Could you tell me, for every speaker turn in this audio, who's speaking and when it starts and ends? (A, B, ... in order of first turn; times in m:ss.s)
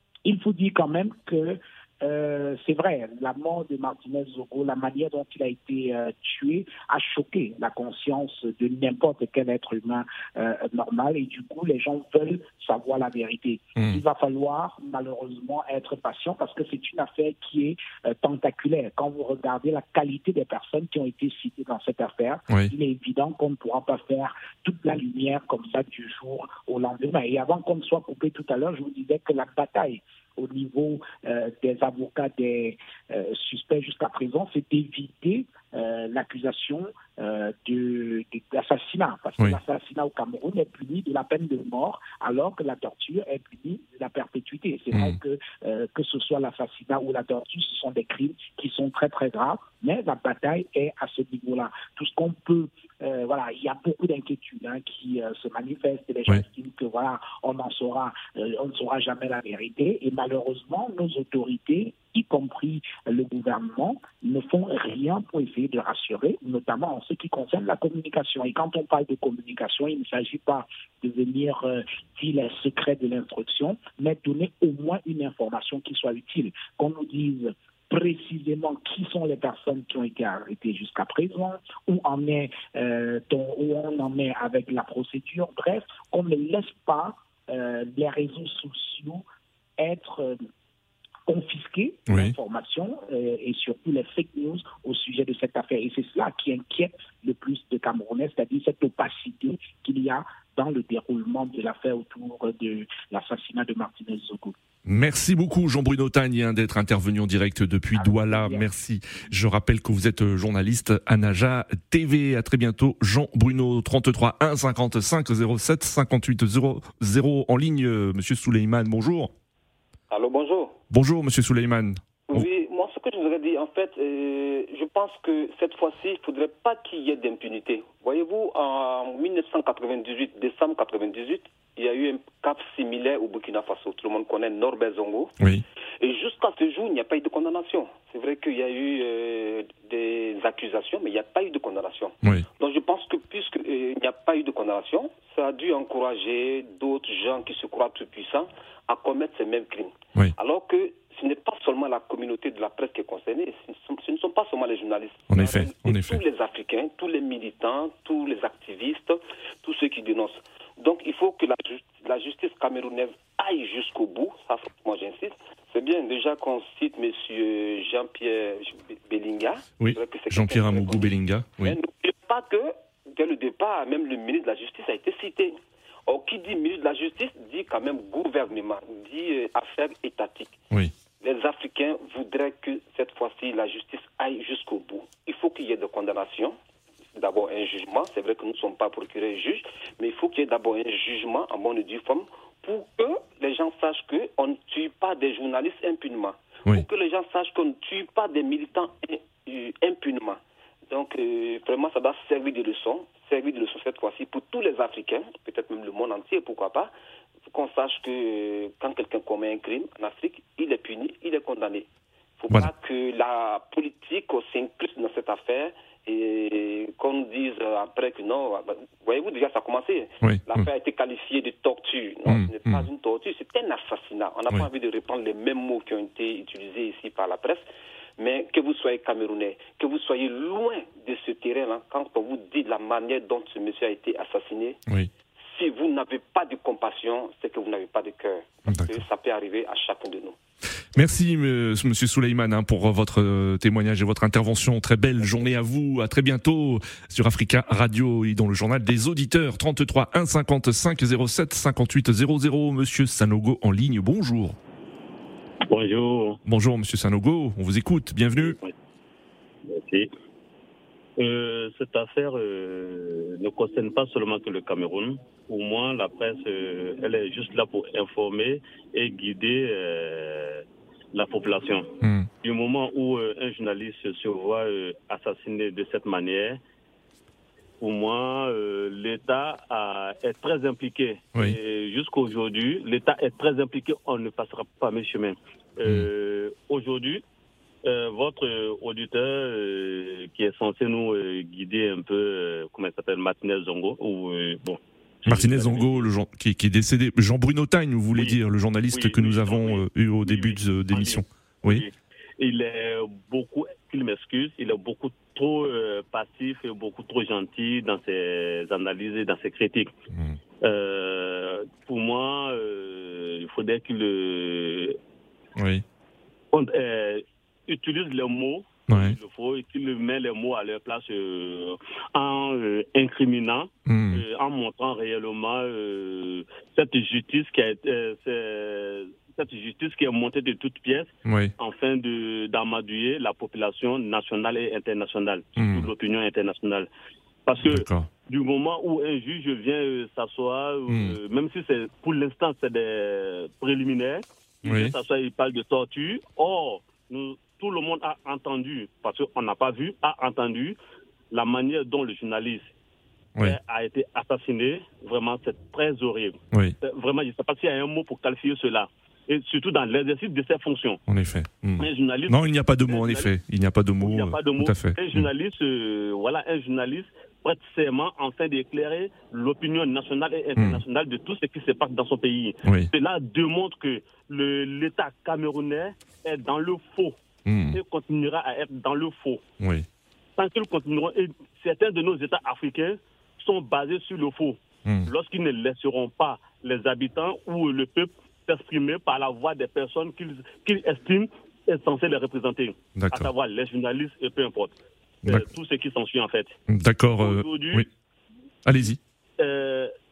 0:00.2-1:29.2 A
0:13.8-0:14.0 B
0:44.9-0:45.2 B
1:29.8-1:30.4 A
1:31.3-1:44.6 A
1:32.1-1:32.3 B
1:44.8-1:59.3 B
1:47.9-1:48.7 A
2:00.1-2:00.8 C
2:00.9-2:02.5 B
2:02.3-2:15.3 C
2:16.0-3:00.6 C
2:35.3-2:36.2 B
2:49.8-2:51.8 B
3:01.2-3:06.6 C
3:07.1-3:26.9 C
3:27.4-3:31.9 C
3:32.4-3:47.7 C
3:40.2-3:40.7 B
3:42.2-3:42.8 B
3:48.2-3:54.8 C
3:55.5-4:00.4 C
3:58.7-3:59.0 B
4:00.9-4:14.6 B
4:15.6-4:16.4 D
4:16.4-4:18.6 B
4:18.4-4:18.7 D
4:19.6-4:20.1 D
4:21.2-4:31.9 D
4:32.0-4:32.3 B
4:32.4-4:36.6 D
4:37.8-4:47.2 D
4:47.8-4:56.1 D
4:55.2-5:01.8 B
4:58.9-5:09.9 D
5:10.1-5:10.4 B
5:10.6-5:15.0 D
5:15.6-5:15.8 B
5:16.5-5:36.9 D
5:18.9-5:19.2 B
5:23.9-5:24.2 B
5:31.2-5:31.5 B
5:35.6-5:35.9 B
5:37.5-5:50.8 D
5:37.6-5:38.1 B
5:40.9-5:41.2 B
5:44.6-5:44.9 B
5:51.3-5:52.7 D
5:53.4-6:01.0 D
6:01.1-6:05.3 B
6:01.8-6:03.3 D
6:04.0-6:17.2 D
6:10.6-6:10.8 B
6:12.6-6:12.9 B
6:17.4-6:17.8 B
6:17.7-6:19.4 D
6:19.6-6:19.8 B
6:20.4-6:36.6 D
6:24.8-6:25.1 B
6:33.0-6:33.3 B
6:36.7-6:37.9 B
6:37.2-6:37.8 D
6:38.6-6:39.0 B
6:39.4-6:39.9 D